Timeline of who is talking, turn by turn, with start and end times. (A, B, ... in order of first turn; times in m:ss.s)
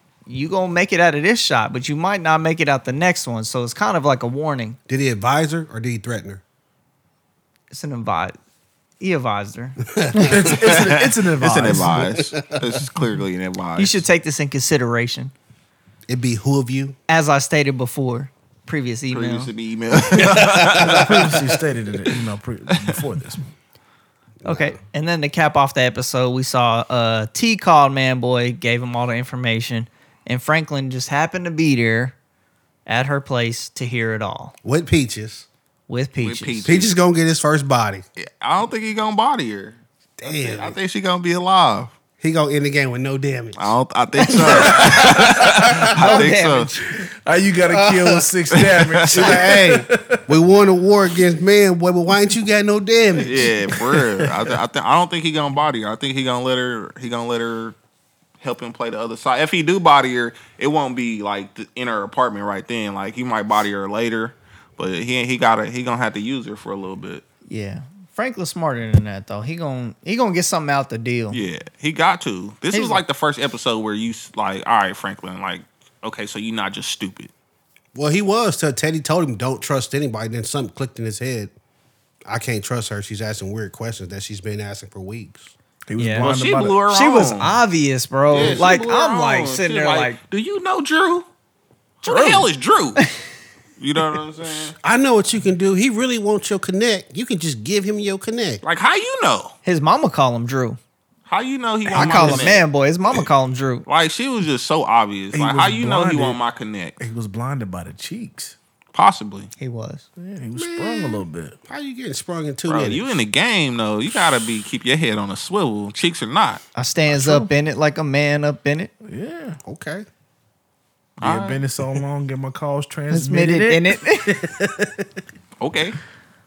0:00.2-0:04.8 A
0:04.9-0:06.4 B
0:07.7-0:08.4 A
0:09.0-0:09.8 A
0:09.9-0:10.6 B
0:10.1-0:12.0 C
0:10.5-0:14.0 D
0:11.7-0:12.8 B
0:13.8-0:15.3 A
0:16.1-0:17.0 B
0:17.1-0:19.5 A
0:19.1-0:21.4 D
0:20.2-0:21.3 B
0:20.3-0:23.4 C
0:24.4-0:24.8 B
0:24.4-0:32.1 A
0:32.8-0:34.5 A
0:34.6-0:35.5 B
0:35.9-0:36.6 A
0:36.2-0:36.9 D
0:36.6-0:38.0 B
0:38.2-0:41.9 D
0:40.2-0:40.8 B
0:42.2-0:43.7 B
0:43.6-0:46.7 D
0:44.2-0:45.1 A
0:44.5-0:46.3 B
0:45.9-0:47.0 A
0:47.2-0:50.2 C
0:47.6-0:48.3 B
0:48.5-0:49.5 D
0:49.1-0:53.6 B
0:53.2-0:57.8 D
0:53.4-0:54.5 C
0:58.4-1:07.2 D
1:07.5-1:11.4 A
1:11.3-1:17.3 D
1:12.7-1:13.0 A
1:17.9-1:21.5 B
1:22.3-1:25.5 B
1:25.9-1:26.8 C
1:26.0-1:26.3 A
1:26.2-1:27.6 D
1:26.9-1:30.2 A
1:28.3-1:31.3 D
1:32.0-1:33.0 D
1:33.8-1:34.8 D
1:34.8-1:38.6 B
1:38.6-1:39.5 D
1:39.6-1:40.8 A
1:41.3-1:43.2 D
1:41.9-1:42.6 B
1:41.9-1:43.8 A
1:43.8-1:47.0 D
1:45.3-1:46.4 C
1:47.0-1:48.6 C
1:48.9-1:49.5 D
1:49.6-1:50.0 A
1:50.2-1:51.6 C
1:50.6-1:53.2 B
1:52.7-1:56.6 D
1:56.7-1:58.9 A
1:57.1-1:57.5 C
1:59.0-1:59.6 C
1:59.6-2:00.0 B
2:01.2-2:01.6 D
2:01.2-2:05.2 C
2:03.1-2:04.3 A
2:05.6-2:06.0 D